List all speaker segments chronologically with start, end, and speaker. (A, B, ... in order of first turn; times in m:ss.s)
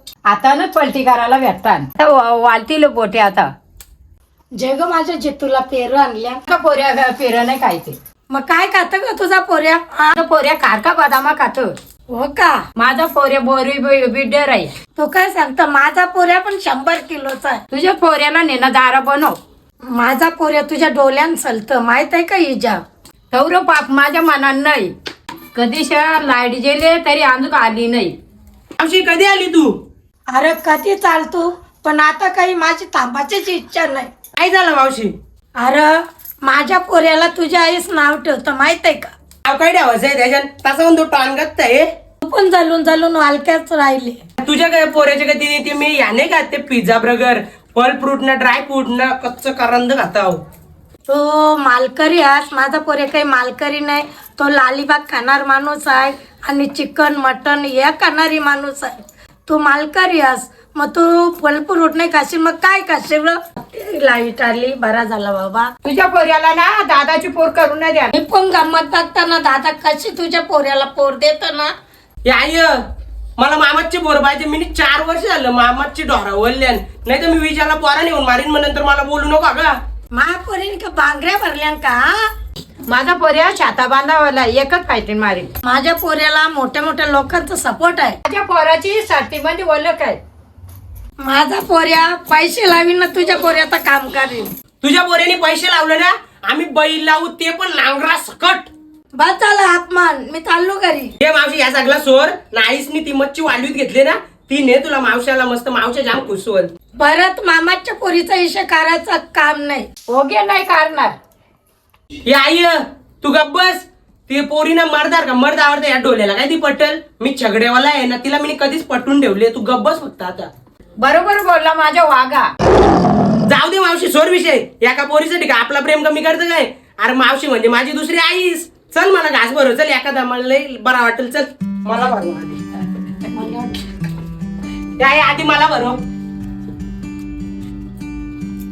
0:00.3-0:03.5 A
0:04.6-0:06.4 B
0:06.5-0:08.0 A
0:08.3-0:10.2 B
0:10.1-0:11.7 A
0:12.1-0:12.6 B
0:12.8-0:14.7 A
0:15.0-0:17.6 B
0:17.7-0:19.4 A
0:19.9-0:22.8 B
0:23.3-0:24.9 A
0:25.5-0:28.2 A
0:28.8-0:29.8 C
0:30.3-0:34.1 B
0:34.4-0:35.1 C
0:35.6-0:39.1 B
0:39.4-0:41.8 C
0:42.2-0:44.2 B
0:44.4-0:50.4 C
0:51.1-0:58.9 B
0:59.5-1:05.7 B
1:05.8-1:08.1 A
1:08.1-1:11.7 B
1:12.2-1:12.8 C
1:13.4-1:19.7 C
1:20.1-1:22.3 B
1:22.9-1:25.5 A
1:25.6-1:28.2 B
1:28.2-1:30.2 A
1:31.2-1:34.5 B
1:34.8-1:38.7 C
1:39.2-1:41.1 B
1:41.2-1:46.7 C
1:47.0-1:49.9 B
1:50.1-1:51.2 A
1:52.2-2:00.5 C
2:01.0-2:02.5 A
2:03.5-2:12.6 C
2:13.3-2:13.8 B
2:15.0-2:16.0 C